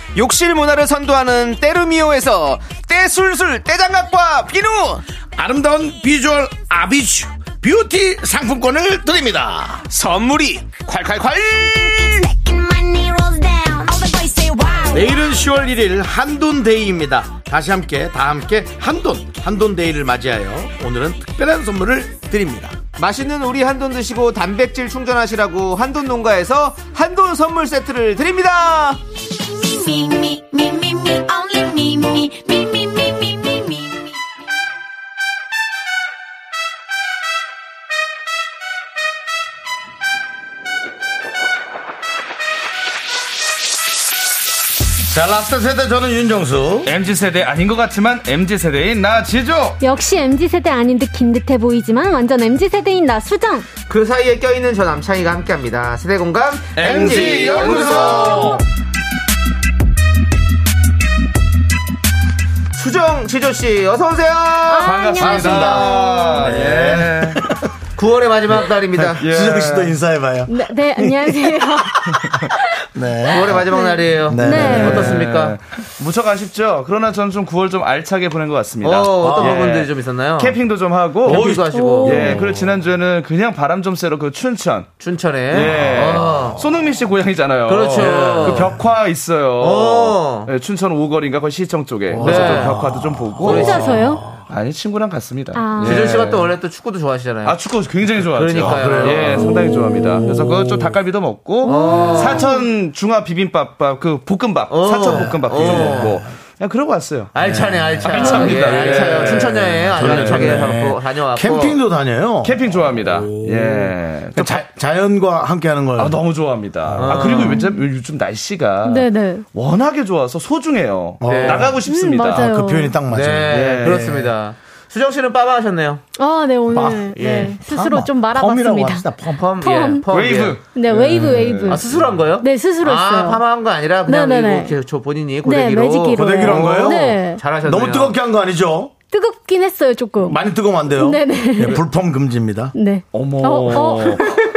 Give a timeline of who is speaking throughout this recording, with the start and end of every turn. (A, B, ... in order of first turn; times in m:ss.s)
0:00.2-0:05.0 A
0:05.4-0:09.8 B
0:09.9-0:12.3 A
0:11.7-0:15.2 C
0:14.9-0:22.8 B
0:23.0-0:29.0 A
0:29.4-0:34.2 C
0:45.0-0:46.9 B
0:46.8-0:49.8 D
0:49.8-0:53.7 E
0:53.9-0:58.5 A
0:56.7-0:58.5 D
0:56.8-0:58.6 B
0:58.0-0:58.6 E
1:02.7-1:05.7 A
1:04.7-1:06.5 E
1:04.8-1:07.4 D
1:05.2-1:07.7 B
1:08.0-1:09.2 A
1:08.9-1:13.7 B
1:09.2-1:10.0 D
1:10.5-1:12.8 E
1:13.3-1:15.6 A
1:13.6-1:15.2 E
1:14.2-1:15.2 B
1:14.6-1:21.5 D
1:18.8-1:20.6 A
1:19.2-1:19.7 B
1:21.2-1:22.4 A
1:21.3-1:21.7 B
1:21.4-1:22.6 E
1:22.0-1:24.9 D
1:25.0-1:26.6 A
1:25.5-1:33.9 D
1:26.3-1:26.6 B
1:27.7-1:28.7 A
1:28.0-1:28.8 B
1:29.6-1:30.5 A
1:32.1-1:34.4 B
1:32.2-1:32.9 A
1:33.4-1:34.3 E
1:33.4-1:33.9 A
1:34.5-1:36.5 D
1:35.5-1:36.2 E
1:35.8-1:37.6 A
1:37.4-1:47.3 D
1:38.2-1:39.5 A
1:38.6-1:40.9 B
1:39.4-1:40.5 E
1:41.6-1:42.5 A
1:41.6-1:42.7 E
1:44.7-1:46.2 A
1:45.5-1:46.3 B
1:47.3-1:51.8 A
1:47.4-1:48.3 B
1:48.0-1:50.7 D
1:49.2-1:56.2 B
1:52.4-1:54.6 D
1:56.0-2:02.5 D
1:56.8-1:57.2 B
1:57.0-1:57.6 A
1:57.3-1:57.8 E
1:58.8-1:59.5 E
2:01.2-2:01.8 B
2:01.2-2:01.7 A
2:01.8-2:03.0 E
2:02.3-2:04.2 B
2:03.1-2:06.0 A
2:03.5-2:04.3 D
2:06.2-2:10.1 E
2:06.7-2:09.4 B
2:07.2-2:07.5 A
2:09.3-2:10.6 A
2:10.1-2:11.9 D
2:10.6-2:13.4 E
2:11.7-2:18.2 A
2:14.0-2:14.7 E
2:15.4-2:17.4 E
2:16.1-2:18.9 B
2:19.1-2:21.8 E
2:20.2-2:22.7 B
2:22.7-2:24.4 E
2:23.1-2:24.3 D